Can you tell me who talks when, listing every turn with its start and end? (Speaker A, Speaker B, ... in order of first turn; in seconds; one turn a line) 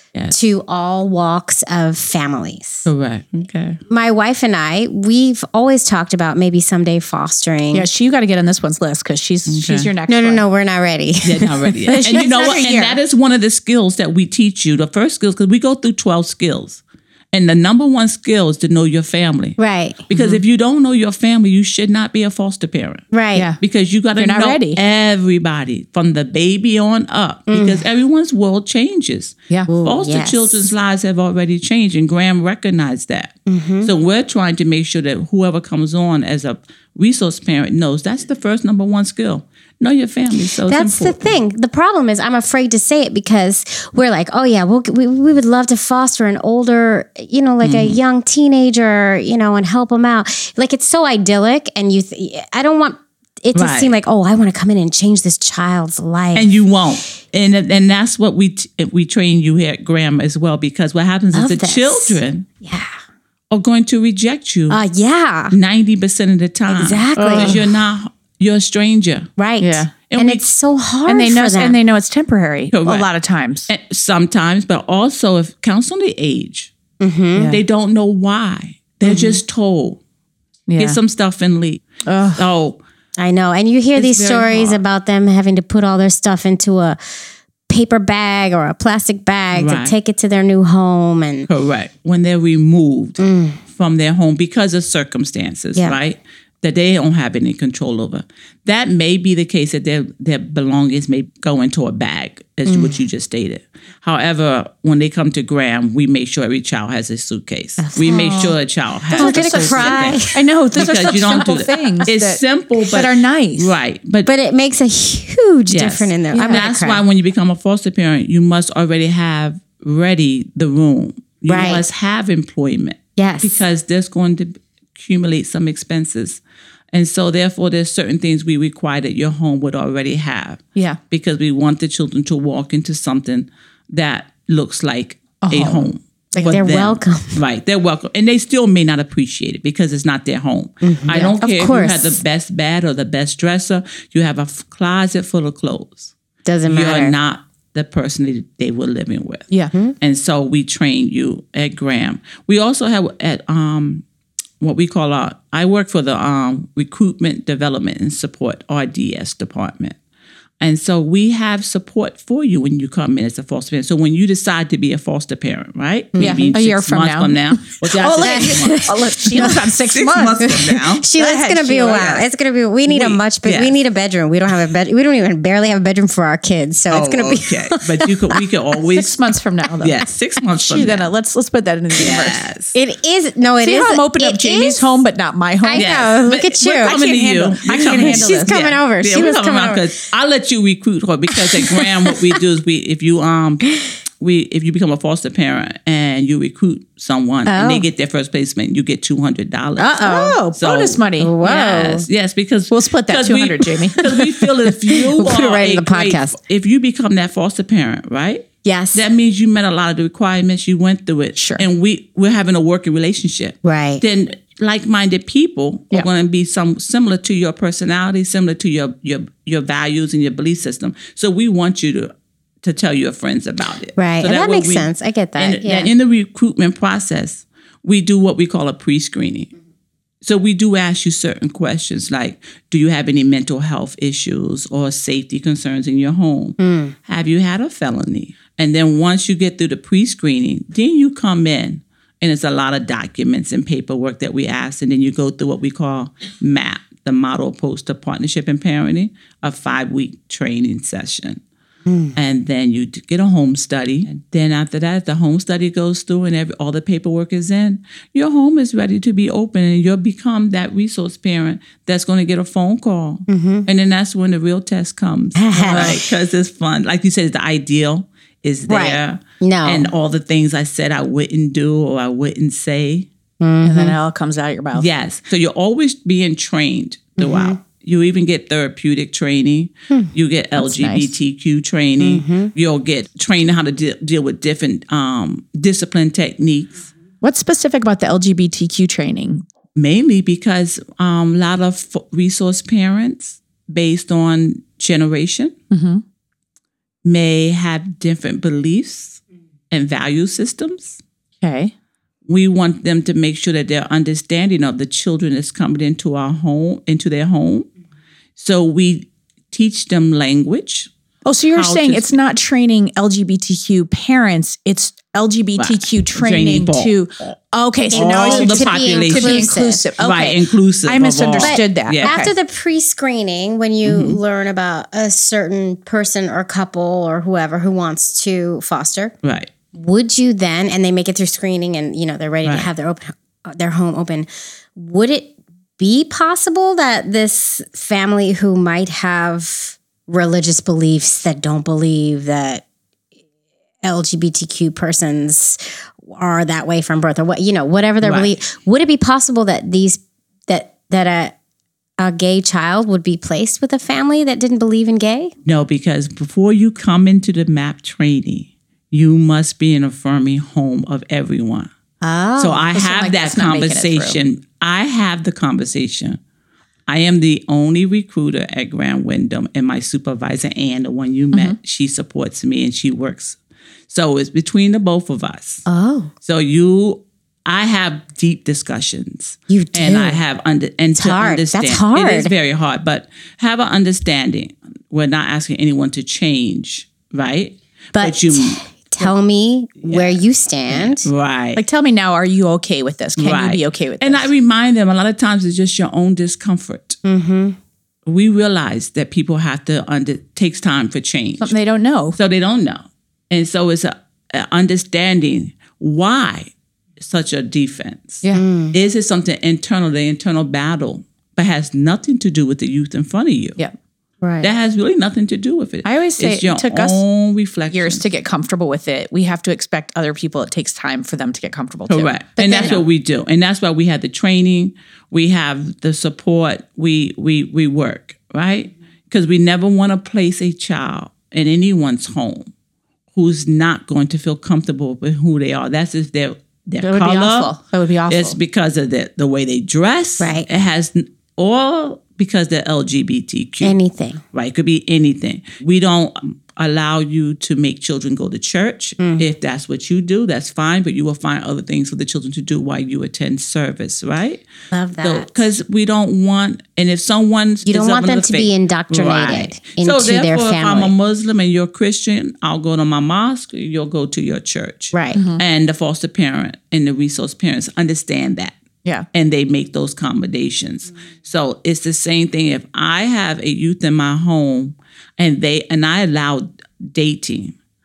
Speaker A: 0.3-2.9
Speaker B: 2.9-3.8
Speaker A: 3.9-7.9
Speaker C: 7.7-10.4
Speaker B: 9.5-9.9
Speaker A: 10.1-11.7
Speaker B: 11.2-19.6
Speaker C: 11.9-13.0
Speaker A: 19.6-20.1
Speaker B: 20.1-23.1
Speaker C: 20.1-20.4
Speaker A: 23.1-23.5
Speaker C: 23.3-23.6
Speaker B: 23.6-41.4
Speaker C: 24.1-24.8
Speaker A: 27.5-27.8
Speaker A: 29.7-30.7
Speaker A: 33.5-33.9
Speaker A: 40.7-56.5
Speaker B: 47.6-48.0
Speaker B: 53.5-53.9
Speaker B: 56.3-62.5
Speaker A: 61.3-62.9
Speaker B: 63.5-64.8
Speaker A: 64.7-65.5
Speaker B: 65.5-69.3
Speaker A: 66.7-67.5
Speaker C: 67.2-67.7
Speaker A: 69.4-71.8
Speaker C: 69.6-69.9
Speaker B: 70.1-70.5
Speaker C: 71.1-73.7
Speaker B: 72.7-73.1
Speaker B: 73.7-76.7
Speaker A: 77.0-77.5
Speaker C: 77.3-77.6
Speaker B: 77.5-80.0
Speaker C: 79.0-79.4
Speaker C: 80.7-81.0
Speaker B: 80.8-81.8
Speaker C: 82.0-82.4
Speaker B: 82.3-82.8
Speaker A: 83.2-87.0
Speaker B: 84.0-84.8
Speaker A: 87.7-91.5
Speaker B: 89.5-89.9
Speaker B: 91.5-114.3
Speaker A: 93.2-93.6
Speaker A: 102.7-103.0
Speaker A: 107.8-108.5
Speaker C: 108.0-108.5
Speaker C: 109.1-113.8
Speaker A: 109.2-111.5
Speaker A: 114.2-117.0
Speaker B: 115.7-126.4
Speaker C: 116.3-116.6
Speaker A: 121.5-121.8
Speaker A: 123.2-123.6
Speaker B: 126.9-146.1
Speaker C: 135.4-136.6
Speaker A: 136.5-137.4
Speaker A: 140.8-142.2
Speaker A: 146.4-147.1
Speaker B: 146.7-149.5
Speaker B: 150.0-154.0
Speaker B: 154.6-160.0
Speaker B: 160.6-171.1
Speaker A: 166.1-166.6
Speaker C: 166.2-172.2
Speaker A: 168.2-169.6
Speaker A: 170.4-178.4
Speaker B: 172.9-173.7
Speaker B: 176.9-179.2
Speaker C: 178.9-180.0
Speaker B: 179.8-181.1
Speaker C: 180.6-182.4
Speaker B: 182.0-182.7
Speaker A: 182.7-185.0
Speaker C: 183.6-188.6
Speaker A: 185.6-189.8
Speaker B: 185.8-222.1
Speaker A: 191.3-192.1
Speaker A: 197.4-197.8
Speaker A: 199.8-200.4
Speaker C: 200.0-201.3
Speaker A: 201.2-202.1
Speaker C: 202.7-204.1
Speaker A: 204.9-206.3
Speaker A: 208.6-209.0
Speaker C: 211.3-211.6
Speaker A: 213.6-214.0
Speaker B: 222.6-229.5
Speaker A: 224.0-225.9
Speaker B: 230.2-251.4
Speaker A: 236.6-236.9
Speaker A: 251.8-252.2
Speaker B: 252.2-273.1
Speaker A: 263.3-263.7
Speaker A: 265.4-266.0
Speaker C: 265.7-266.0
Speaker A: 268.7-269.9
Speaker A: 273.4-273.9
Speaker C: 273.6-274.9
Speaker B: 274.7-286.9
Speaker A: 277.2-277.6
Speaker C: 280.6-281.1
Speaker A: 282.0-282.5
Speaker C: 287.2-289.4
Speaker B: 289.8-295.5
Speaker C: 295.7-296.0
Speaker B: 297.0-299.2
Speaker B: 299.7-301.0
Speaker C: 301.4-301.7
Speaker B: 302.3-307.7
Speaker B: 308.4-310.9
Speaker C: 311.2-322.3
Speaker B: 311.5-312.1
Speaker B: 315.6-316.9
Speaker A: 317.9-319.8
Speaker B: 317.9-319.5
Speaker B: 320.0-322.3
Speaker A: 321.4-329.1
Speaker B: 323.8-324.2
Speaker B: 329.2-329.5
Speaker A: 329.7-342.6
Speaker A: 343.8-351.3
Speaker B: 348.0-348.4
Speaker A: 352.0-355.3
Speaker B: 355.4-361.7
Speaker A: 362.0-362.6
Speaker B: 362.4-366.2
Speaker C: 362.7-364.2
Speaker B: 366.9-373.4
Speaker B: 373.9-375.6
Speaker A: 375.7-376.1
Speaker B: 376.2-388.7
Speaker A: 379.5-380.2
Speaker A: 380.9-382.3
Speaker A: 387.9-391.1
Speaker B: 389.8-391.6
Speaker C: 391.5-394.3
Speaker B: 393.2-397.0
Speaker A: 397.0-397.6
Speaker B: 398.1-401.6
Speaker C: 401.4-402.2
Speaker B: 402.1-413.6
Speaker A: 408.3-408.7
Speaker A: 414.2-414.5
Speaker B: 414.4-418.0
Speaker C: 415.8-417.0
Speaker C: 417.7-422.8
Speaker B: 421.9-432.5
Speaker A: 422.4-422.8
Speaker B: 433.1-437.6
Speaker C: 436.8-438.4
Speaker B: 438.1-443.7
Speaker A: 440.2-440.4
Speaker A: 443.6-444.2
Speaker B: 444.3-454.4
Speaker A: 449.0-449.3
Speaker A: 454.7-455.4
Speaker B: 455.0-468.6
Speaker A: 457.6-460.9
Speaker A: 464.9-465.2
Speaker C: 465.1-465.4
Speaker B: 469.1-477.5